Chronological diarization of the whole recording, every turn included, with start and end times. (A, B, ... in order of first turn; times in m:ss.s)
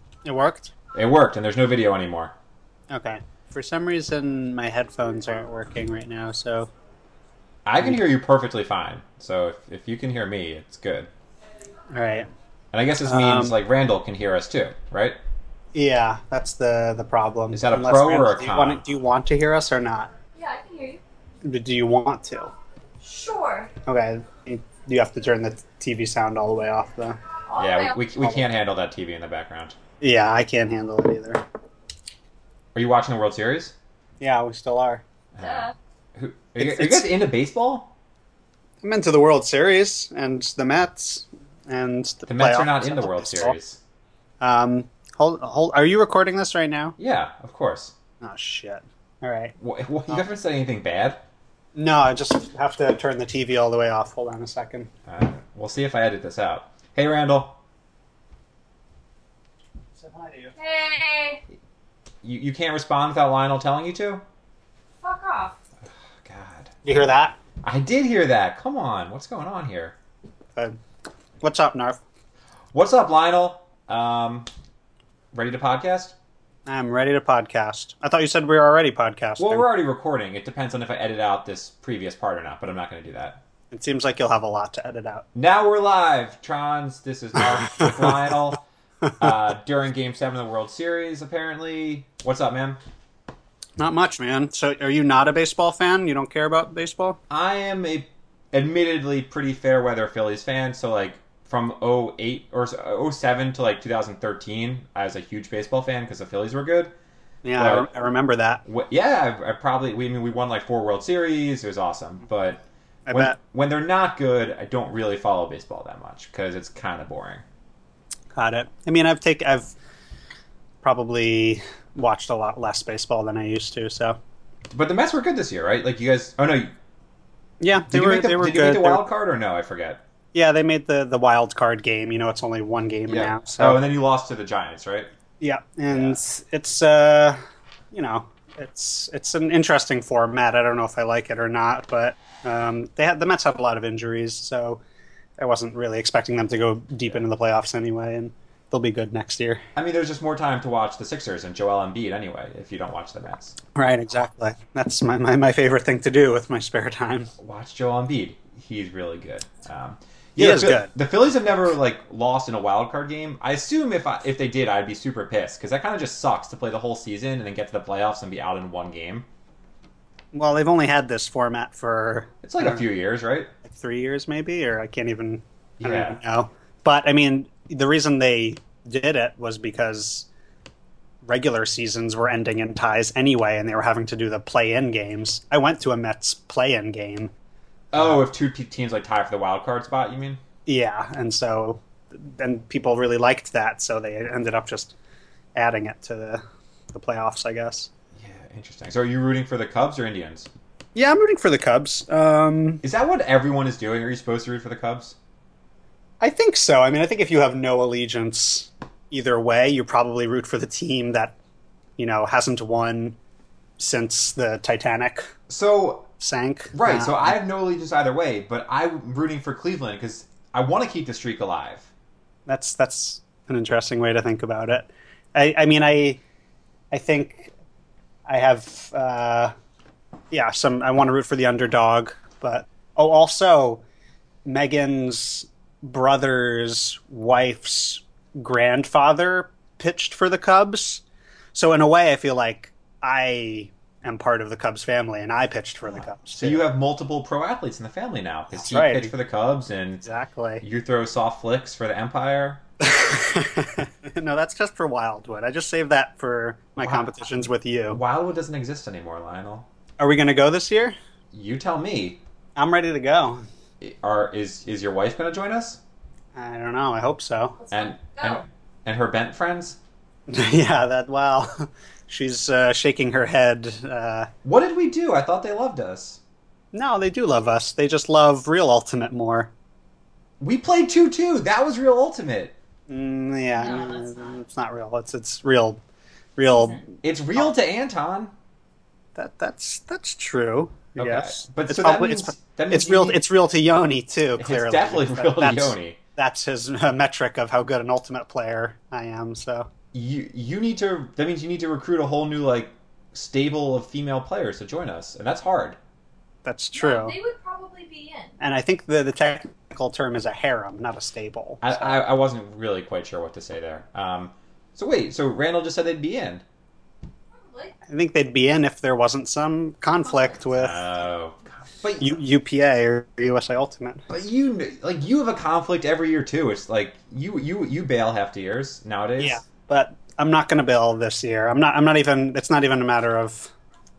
0:00.2-0:00.7 A
0:00.9-0:02.3 B
0:02.9-0:06.7 A
0:07.7-0:11.1 B
0:11.9-0:12.3 A
0:12.7-0:15.2 B
0:13.0-0:13.6 A
0:15.7-0:20.1 A
0:17.5-0:18.8 B
0:20.4-0:21.0 C
0:21.4-0:22.5 A
0:23.0-0:23.7 C
0:23.9-0:27.2 A
0:27.5-0:28.0 C
0:27.6-0:29.8 B
0:30.0-0:31.4 A
0:32.8-0:33.8 B
0:34.2-0:35.0 A
0:35.4-0:37.9 B
0:35.4-0:35.7 C
0:36.6-0:37.1 A
0:38.8-0:43.6 A
0:42.3-0:43.8 B
0:44.4-0:47.0 A
0:47.0-0:47.9 B
0:48.2-0:49.6 A
0:49.6-0:51.2 B
0:51.8-0:54.9 A
0:55.1-0:57.6 B
1:00.0-1:00.5 A
1:00.6-1:01.4 C
1:02.2-1:04.2 B
1:05.0-1:05.6 C
1:06.2-1:07.1 B
1:06.8-1:07.4 A
1:07.6-1:10.0 B
1:11.4-1:12.0 A
1:12.7-1:14.5 B
1:15.3-1:16.2 B
1:16.7-1:19.7 A
1:19.4-1:23.4 B
1:23.7-1:25.3 A
1:25.4-1:28.6 B
1:27.6-1:28.3 A
1:29.2-1:32.8 B
1:33.8-1:37.2 A
1:37.3-1:46.9 B
1:47.4-1:48.6 A
1:47.6-1:47.9 B
1:48.6-1:57.4 B
1:53.1-1:53.4 A
1:58.3-1:59.8 A
2:00.8-2:04.2 A
2:04.7-2:06.7 B
2:07.6-2:09.0 A
2:07.9-2:10.0 B
2:10.3-2:13.8 A
2:13.1-2:15.1 B
2:15.4-2:17.4 A
2:15.9-2:16.2 B
2:17.9-2:24.8 A
2:25.4-2:29.6 A
2:29.8-2:33.6 B
2:33.8-2:37.3 A
2:37.4-2:49.3 B
2:40.4-2:40.9 A
2:50.3-2:52.8 A
2:52.4-2:53.5 B
2:53.6-3:00.3 A
2:55.8-2:56.2 B
3:01.2-3:07.3 A
3:07.9-3:10.4 B
3:10.7-3:15.0 A
3:15.6-3:17.9 A
3:18.2-3:20.5 B
3:21.0-3:22.8 A
3:22.8-3:25.2 B
3:26.2-3:31.4 A
3:32.0-3:33.2 A
3:33.8-3:35.3 A
3:35.5-3:36.1 B
3:36.2-3:37.4 A
3:36.7-3:41.9 B
3:42.5-3:46.2 A
3:46.9-3:47.5 A
3:48.3-3:49.5 A
3:50.3-3:53.8 A
3:54.4-4:01.0 A
4:01.5-4:06.6 A
4:06.4-4:10.0 B
4:08.5-4:09.1 A
4:10.0-4:10.6 A
4:10.6-4:12.6 B
4:12.8-4:18.0 A
4:16.8-4:17.1 B
4:17.9-4:19.7 B
4:20.0-4:21.0 A
4:21.3-4:22.2 B
4:22.6-4:23.4 A
4:23.8-4:25.8 B
4:26.4-4:27.6 A
4:27.6-4:28.4 C
4:27.7-4:29.8 B
4:30.3-4:34.3 A
4:34.4-4:36.2 B
4:36.7-4:39.5 A
4:40.4-4:42.6 B
4:42.9-4:45.8 A
4:43.6-4:44.3 C
4:46.4-4:47.5 A
4:47.0-4:48.3 B
4:49.2-4:59.7 A
4:51.0-4:53.2 B
4:54.4-4:56.0 B
4:59.9-5:05.8 B
5:06.4-5:07.2 A
5:06.8-5:08.4 C
5:08.4-5:11.9 A
5:11.6-5:16.4 B
5:17.3-5:17.8 C
5:17.9-5:20.8 A
5:20.5-5:22.2 B
5:22.0-5:24.0 A
5:24.1-5:29.4 B
5:29.2-5:33.5 A